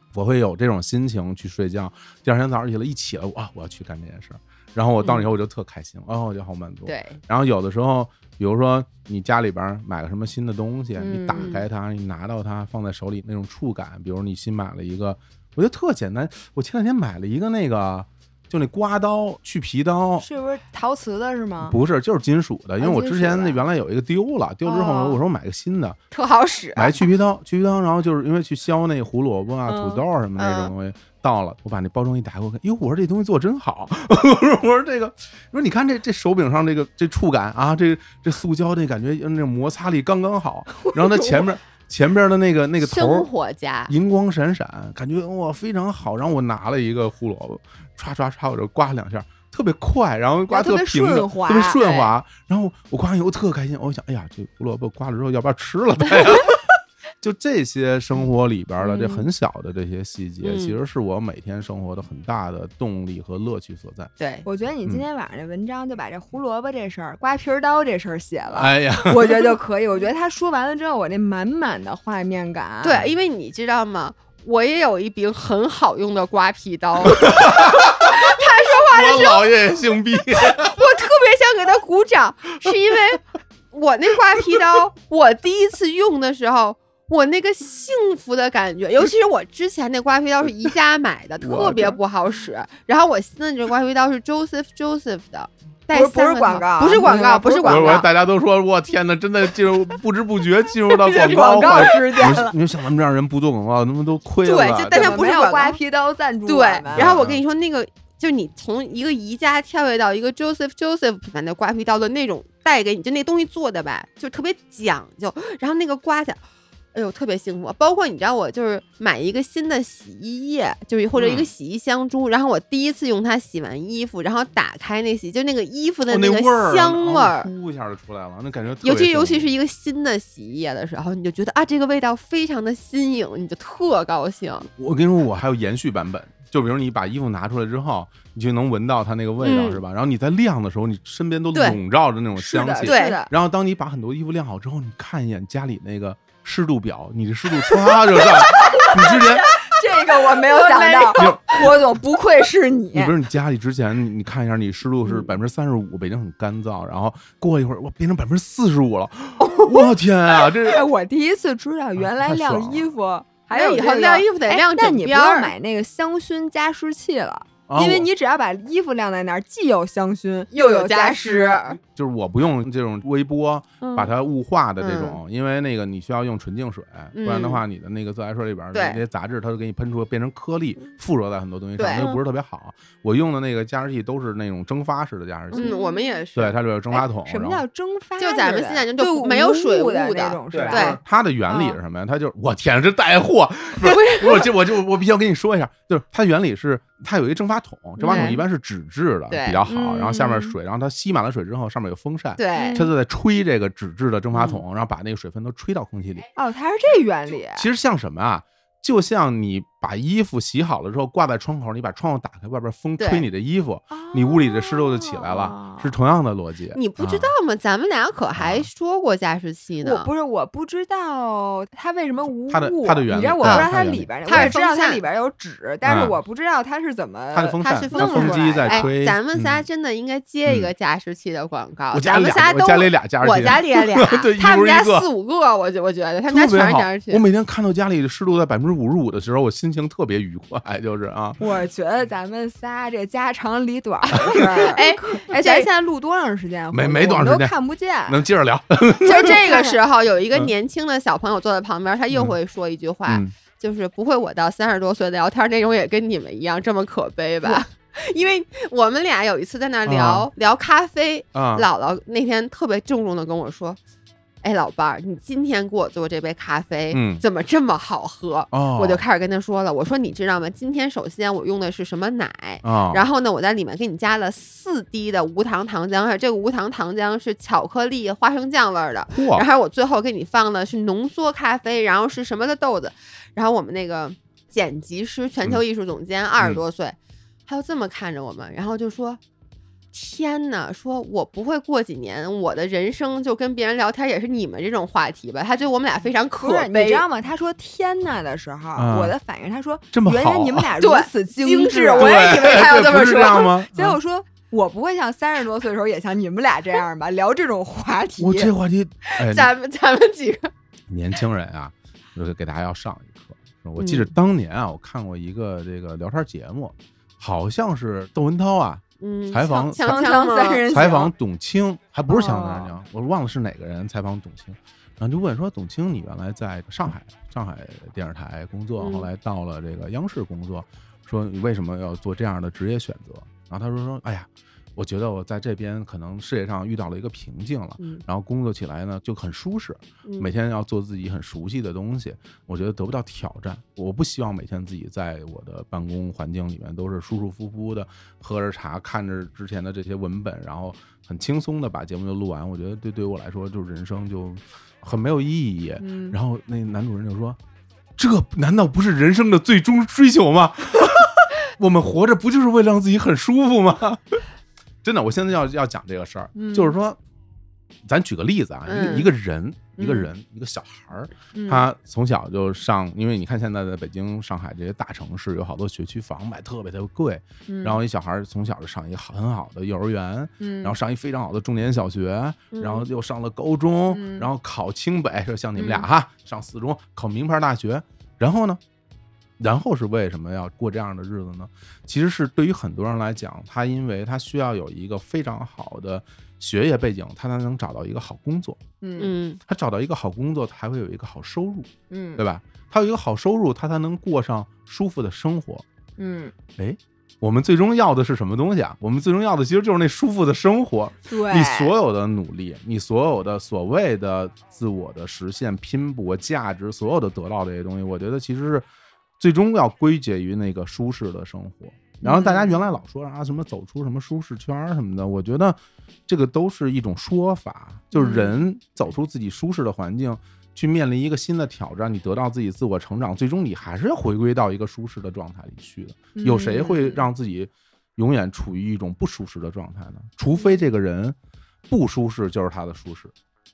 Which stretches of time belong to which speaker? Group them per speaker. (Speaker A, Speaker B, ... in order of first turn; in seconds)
Speaker A: 0.1-20.3, 21.6-26.0, 26.8-43.3, 43.9-56.6, 57.2-64.1, 68.5-69.6, 77.0-80.8, 91.4-92.0, 97.6-105.2, 106.9-107.4, 121.2-121.5, 126.1-129.5, 134.8-149.5, 151.2-151.7, 152.9-160.9, 162.0-162.9, 167.7-168.1, 171.9-185.7, 186.3-187.6, 190.5-206.3, 207.5-217.3, 218.3-218.7, 222.5-224.6, 225.8-226.2, 227.3-229.7, 230.5-230.7, 231.9-235.1, 236.3-241.4, 244.2-244.7, 246.7-247.6, 248.1-249.4, 252.1-252.4, 253.1-253.3, 259.9-260.3, 261.3-261.7, 266.9-267.2, 268.5-269.0, 272.6-273.0, 279.1-279.5, 298.8-299.1, 299.9-300.7, 302.0-304.0, 308.2-309.5, 310.9-320.1, 320.7-357.4, 358.0-364.3, 364.8-367.0, 367.8-388.6, 389.4-398.6, 399.5-405.6, 406.6-418.7, 419.2-441.2, 441.7-443.1
Speaker B: 5.0-5.3, 6.9-7.2, 11.3-11.7, 26.1-27.0, 30.4-30.7, 42.8-43.9, 60.4-60.8, 64.2-64.5, 72.8-79.5, 80.4-98.1, 100.9-102.4, 104.4-105.8, 106.5-116.4, 116.9-127.5, 128.8-134.7, 139.4-139.8, 141.5-141.8, 142.8-143.2, 150.2-151.6, 163.5-165.5, 170.5-171.8, 174.8-175.2, 177.2-177.6, 178.7-179.0, 181.8-182.2, 185.5-186.6, 188.2-191.0, 193.8-194.5, 198.1-198.4, 199.3-199.6, 202.4-202.9, 204.3-204.6, 213.0-213.3, 216.7-220.1, 223.4-223.7, 224.3-225.0, 227.6-237.2, 244.7-245.7, 249.0-263.8, 264.4-287.0, 287.5-289.2, 289.9-297.1, 300.8-303.5, 309.1-310.5, 313.8-314.1, 319.0-320.7, 328.8-329.1, 340.1-340.3, 368.7-369.1, 382.5-382.9, 399.0-399.4
Speaker C: 11.0-11.5, 20.2-21.8, 22.8-23.6, 24.6-25.2, 29.7-30.0, 50.5-52.0, 58.8-59.2, 64.5-73.0, 95.9-98.1, 101.1-102.6, 104.9-107.1, 142.4-143.3, 148.5-153.1, 159.4-159.9, 160.7-171.8, 185.5-186.2, 187.2-191.0, 198.0-198.4, 199.7-200.5, 202.5-202.9, 206.3-207.7, 213.9-215.9, 219.8-228.9, 241.4-248.2, 249.1-249.8, 296.4-308.5, 319.5-321.1, 322.1-322.8, 355.8-356.1, 366.4-366.8, 369.8-370.1, 371.3-371.7, 377.5-377.8, 380.4-380.8, 383.9-384.3, 385.6-385.8, 398.8-399.1, 401.9-402.2, 406.0-406.3, 411.1-411.7, 422.0-422.5, 427.9-428.4, 436.2-437.1